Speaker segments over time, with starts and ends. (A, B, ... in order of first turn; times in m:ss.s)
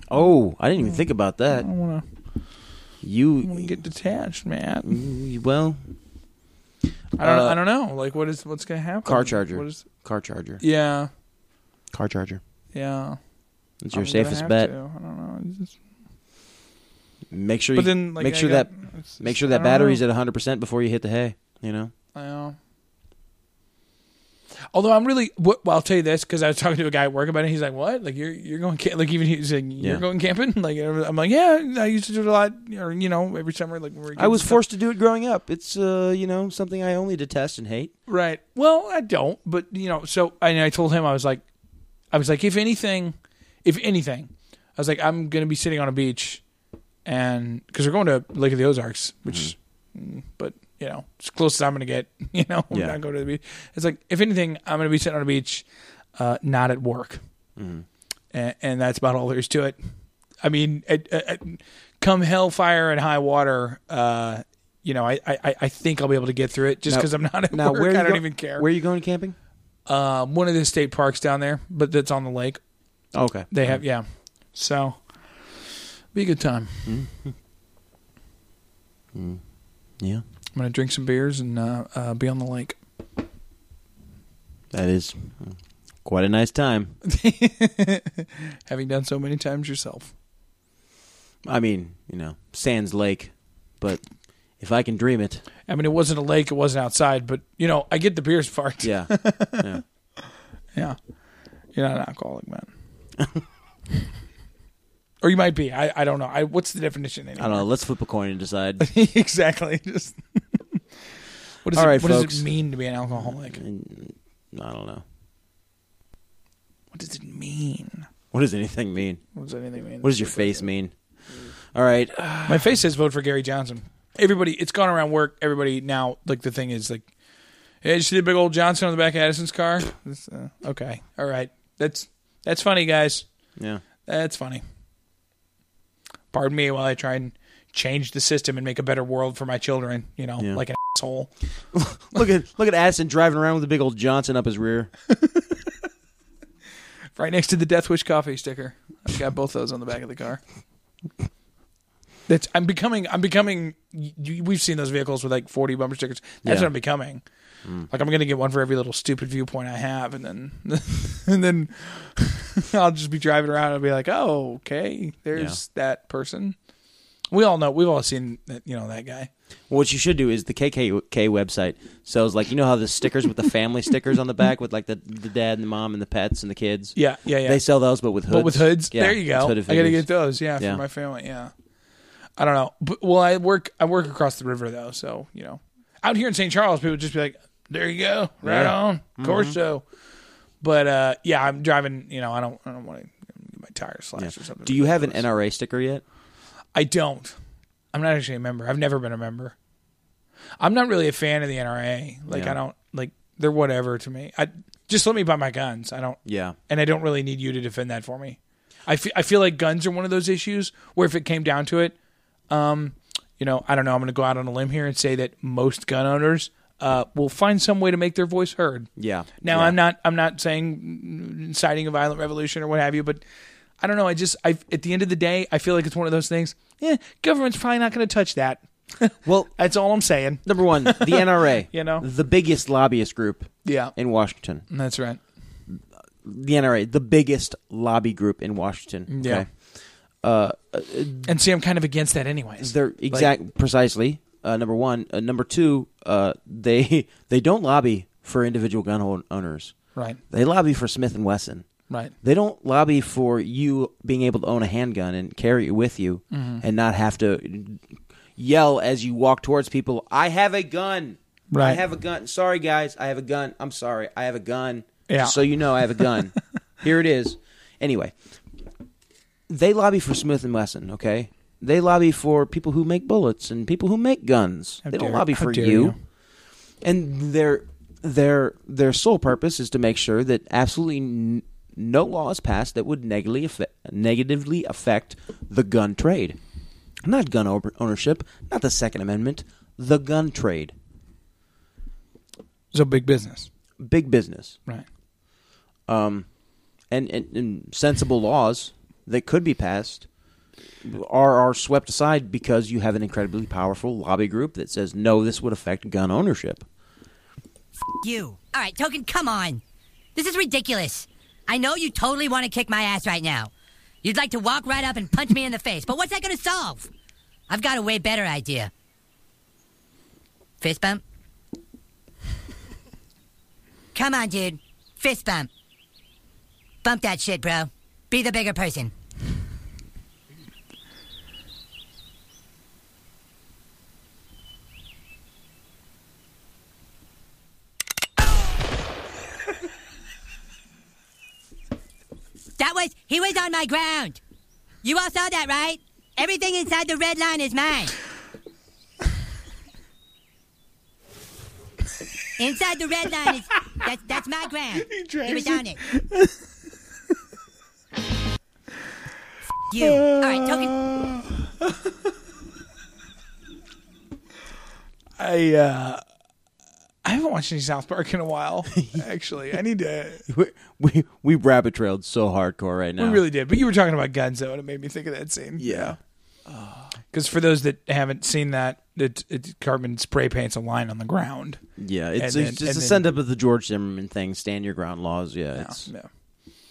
0:00.1-0:01.7 A
0:00.8-0:02.0 B
0:03.0-0:03.8 A
0:03.4-0:05.0 B
0:04.8-0:05.8 A
0:07.2-0:07.6 A
0:07.2-0:09.8 B
0:09.0-0:10.6 A
0:10.6-0:11.1 B
0:11.9-0:12.4 A
0:12.7-0:13.2 B
0:13.8-0:14.7 A
0:13.9-0:15.7 B
0:17.3-0:21.9 A
0:17.7-0:20.0 B
0:22.1-0:22.6 B
0:24.7-0:34.6 B
0:34.2-0:37.9 A
0:38.1-0:41.4 B
0:42.1-0:46.4 B
0:47.0-0:57.2 B
0:49.3-0:49.5 A
0:52.7-0:53.0 A
0:57.6-0:57.8 A
0:58.3-0:59.8 B
1:00.4-1:08.7 B
1:06.8-1:09.3 A
1:09.9-1:12.6 B
1:13.1-1:13.8 A
1:13.5-1:15.6 B
1:16.1-1:16.9 B
1:16.8-1:17.3 A
1:19.1-1:19.4 A
1:20.5-1:22.8 B
1:24.7-1:27.0 A
1:27.0-1:30.1 B
1:31.4-1:34.0 A
1:34.6-1:35.4 A
1:35.7-1:39.8 B
1:38.8-1:39.8 A
1:41.7-1:42.7 B
1:43.2-1:43.4 A
1:45.2-1:47.6 B
1:47.4-1:48.8 A
1:48.8-1:50.2 B
1:51.6-1:53.6 B
1:51.7-1:52.5 A
1:53.1-1:55.0 A
1:56.9-1:58.1 B
1:58.3-1:59.2 A
1:59.3-2:00.7 B
2:00.0-2:00.9 A
2:01.7-2:02.7 A
2:02.5-2:07.1 B
2:07.8-2:13.3 B
2:13.6-2:13.8 A
2:14.0-2:14.6 B
2:16.3-2:21.3 B
2:21.7-2:24.9 A
2:25.1-2:25.5 B
2:27.1-2:30.4 B
2:32.3-2:37.2 B
2:36.4-2:36.7 A
2:37.9-2:46.5 B
2:47.3-2:49.3 B
2:49.7-3:00.8 A
2:56.9-2:57.6 B
2:58.3-3:01.5 B
3:02.4-3:09.8 B
3:08.4-3:09.5 A
3:10.6-3:15.2 B
3:14.2-3:16.0 A
3:16.7-3:17.3 B
3:17.9-3:19.5 B
3:20.6-3:31.9 B
3:22.3-3:22.6 A
3:26.2-3:26.6 A
3:32.5-3:38.9 B
3:39.0-3:39.8 A
3:39.4-3:43.2 B
3:43.8-3:52.0 B
3:49.2-3:49.5 A
3:50.4-3:54.6 A
3:53.6-3:53.9 B
3:54.7-3:55.2 B
3:55.7-3:59.6 A
3:59.1-3:59.4 B
4:00.2-4:01.3 A
4:01.2-4:03.3 B
4:02.6-4:09.7 A
4:10.3-4:11.6 A
4:11.9-4:12.1 B
4:12.2-4:17.8 A
4:16.3-4:16.6 B
4:18.4-4:28.2 A
4:21.5-4:21.8 B
4:25.1-4:25.4 B
4:29.5-4:35.9 A
4:34.8-4:35.9 B
4:36.8-4:46.4 A
4:47.0-4:50.7 A
4:52.7-4:53.5 B
4:53.8-4:54.6 A
4:55.9-4:56.3 A
4:56.9-5:00.1 A
5:00.8-5:06.6 A
5:08.0-5:09.6 C
5:10.1-5:13.5 C
5:14.0-5:16.9 C
5:17.5-5:18.7 C
5:20.6-5:21.0 C
5:23.9-5:25.5 C
5:26.8-5:28.9 C
5:42.6-5:44.2 C
5:44.8-5:47.9 C
5:52.4-5:55.8 C
5:54.7-5:56.4 B
5:59.7-6:00.8 C
5:59.7-6:01.8 B
6:05.2-6:06.0 B
6:07.0-6:10.3 B
6:10.3-6:13.2 A
6:13.0-6:16.0 B
6:15.6-6:15.9 A
6:16.5-6:21.6 B
6:21.8-6:25.9 A
6:22.2-6:23.0 B
6:25.5-6:26.1 B